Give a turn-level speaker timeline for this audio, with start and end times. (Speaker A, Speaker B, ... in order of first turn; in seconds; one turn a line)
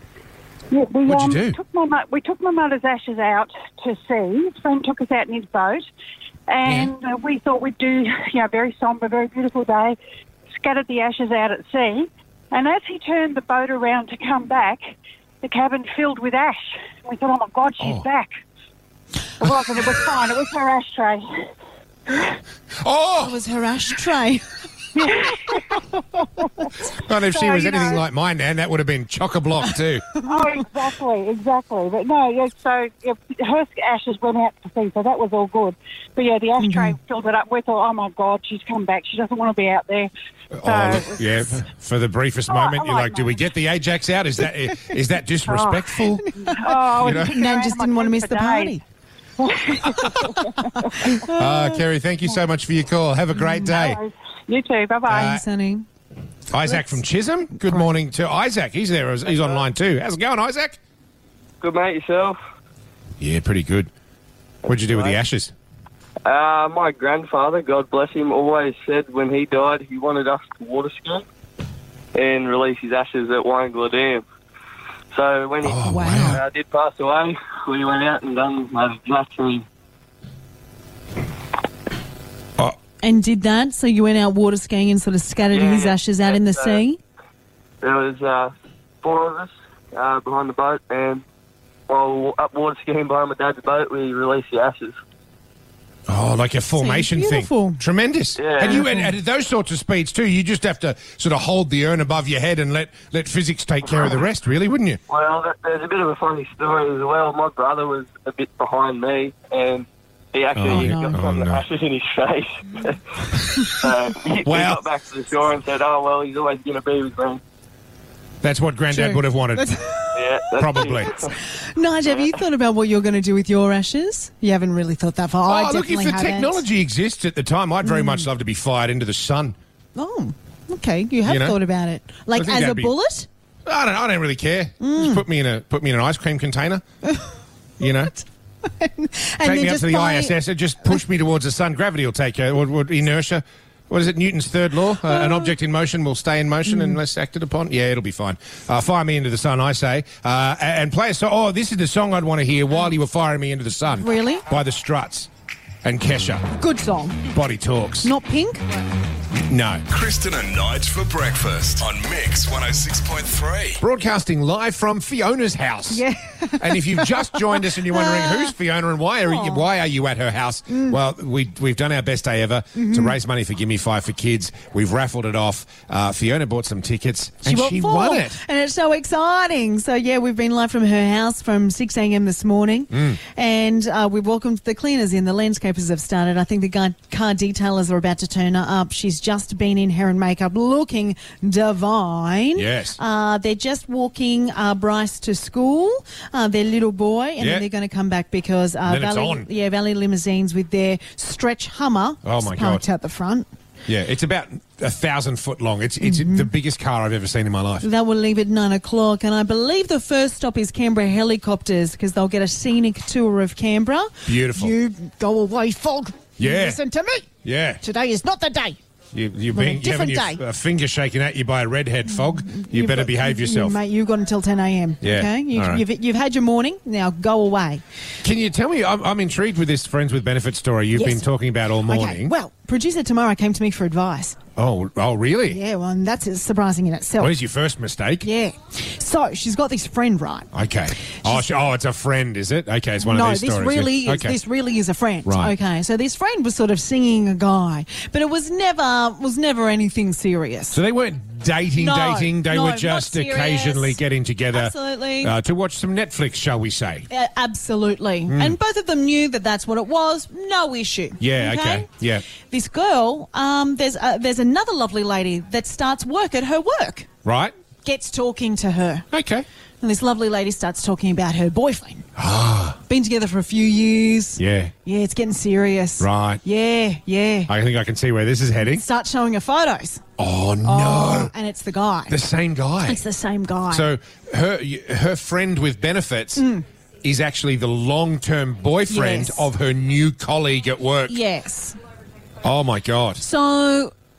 Speaker A: 0.7-5.8
Speaker B: 1.1-1.6
Speaker A: 6.5-10.0
Speaker B: 6.7-6.9
Speaker A: 10.6-18.3
Speaker B: 17.8-18.1
Speaker A: 19.4-21.2
Speaker B: 19.5-19.9
Speaker B: 22.8-23.4
Speaker C: 23.2-24.4
Speaker A: 25.0-25.7
Speaker C: 25.3-26.6
Speaker A: 26.4-26.8
Speaker B: 27.0-30.1
Speaker A: 27.3-28.0
Speaker A: 30.2-40.1
Speaker C: 36.6-37.0
Speaker B: 40.5-46.3
Speaker A: 40.6-41.5
Speaker A: 42.5-43.4
Speaker A: 45.5-45.8
Speaker C: 46.2-48.8
Speaker A: 46.4-48.8
Speaker B: 47.0-47.3
Speaker A: 49.4-51.2
Speaker C: 49.9-51.8
Speaker B: 51.2-54.0
Speaker A: 53.5-55.4
Speaker B: 55.1-55.4
Speaker C: 55.2-55.9
Speaker B: 56.5-60.8
Speaker D: 61.6-62.4
Speaker B: 63.2-63.9
Speaker B: 64.7-65.5
Speaker D: 64.8-65.2
Speaker D: 66.2-71.2
Speaker D: 72.2-74.2
Speaker D: 75.1-79.7
Speaker B: 75.7-76.4
Speaker C: 75.9-76.3
Speaker C: 83.0-87.0
Speaker D: 85.5-86.8
Speaker D: 87.8-91.2
Speaker D: 91.9-95.0
Speaker B: 96.1-105.0
Speaker C: 96.8-97.8
Speaker D: 98.4-98.8
Speaker C: 98.6-99.1
Speaker D: 105.1-117.4
Speaker B: 110.5-111.6
Speaker C: 110.7-111.2
Speaker B: 114.5-114.8
Speaker B: 118.4-119.7
Speaker C: 118.9-126.6
Speaker D: 120.1-121.3
Speaker B: 120.6-121.1
Speaker D: 122.1-122.3
Speaker B: 125.5-129.6
Speaker C: 127.8-128.3
Speaker C: 129.9-133.3
Speaker B: 131.2-131.6
Speaker B: 132.3-132.9
Speaker B: 133.7-136.8
Speaker C: 134.8-135.2
Speaker C: 137.0-137.4
Speaker B: 137.8-138.1
Speaker C: 138.1-140.4
Speaker B: 139.4-155.3
Speaker C: 145.0-145.5
Speaker C: 146.7-147.0
Speaker C: 154.0-154.5
Speaker B: 155.8-156.4
Speaker C: 156.6-157.3
Speaker B: 157.3-158.1
Speaker C: 158.0-158.7
Speaker B: 159.5-159.8
Speaker E: 159.9-163.8
Speaker B: 163.8-166.0
Speaker C: 165.9-168.5
Speaker B: 166.6-178.4
Speaker C: 169.3-169.6
Speaker C: 170.7-171.0
Speaker C: 172.8-173.2
Speaker C: 177.4-203.5
Speaker B: 182.9-183.2
Speaker B: 192.6-193.0
Speaker B: 197.4-197.7
Speaker B: 198.9-199.5
Speaker B: 202.2-202.8
Speaker B: 203.9-207.9
Speaker C: 206.0-206.5
Speaker C: 207.8-217.3
Speaker B: 214.3-214.8
Speaker B: 216.4-216.8
Speaker B: 217.4-217.8
Speaker C: 217.8-218.8
Speaker B: 219.1-223.8
Speaker C: 219.5-220.4
Speaker C: 222.1-227.8
Speaker B: 225.0-225.8
Speaker B: 228.2-232.3
Speaker C: 230.9-231.3
Speaker C: 231.8-234.4
Speaker B: 234.6-235.6
Speaker C: 235.5-237.3
Speaker B: 237.2-238.3
Speaker C: 238.2-240.5
Speaker B: 240.5-244.4
Speaker C: 243.0-250.8
Speaker B: 245.3-245.5
Speaker B: 250.7-257.1
Speaker C: 251.8-254.0
Speaker C: 254.5-255.3
Speaker C: 257.1-261.9
Speaker B: 258.3-258.6
Speaker B: 261.2-262.2
Speaker C: 262.5-267.1
Speaker B: 267.2-267.5
Speaker C: 267.8-269.1
Speaker B: 269.1-269.5
Speaker C: 269.8-272.1
Speaker B: 272.2-272.8
Speaker C: 272.9-277.5
Speaker B: 274.4-274.7
Speaker B: 276.0-276.4
Speaker B: 277.5-278.8
Speaker C: 278.6-280.0
Speaker B: 280.2-281.3
Speaker C: 280.6-282.2
Speaker B: 282.1-283.0
Speaker C: 282.8-283.9
Speaker B: 283.7-286.5
Speaker C: 286.4-286.6
Speaker B: 287.0-291.2
Speaker C: 288.9-289.5
Speaker C: 291.1-291.8
Speaker B: 292.4-293.2
Speaker C: 293.2-293.9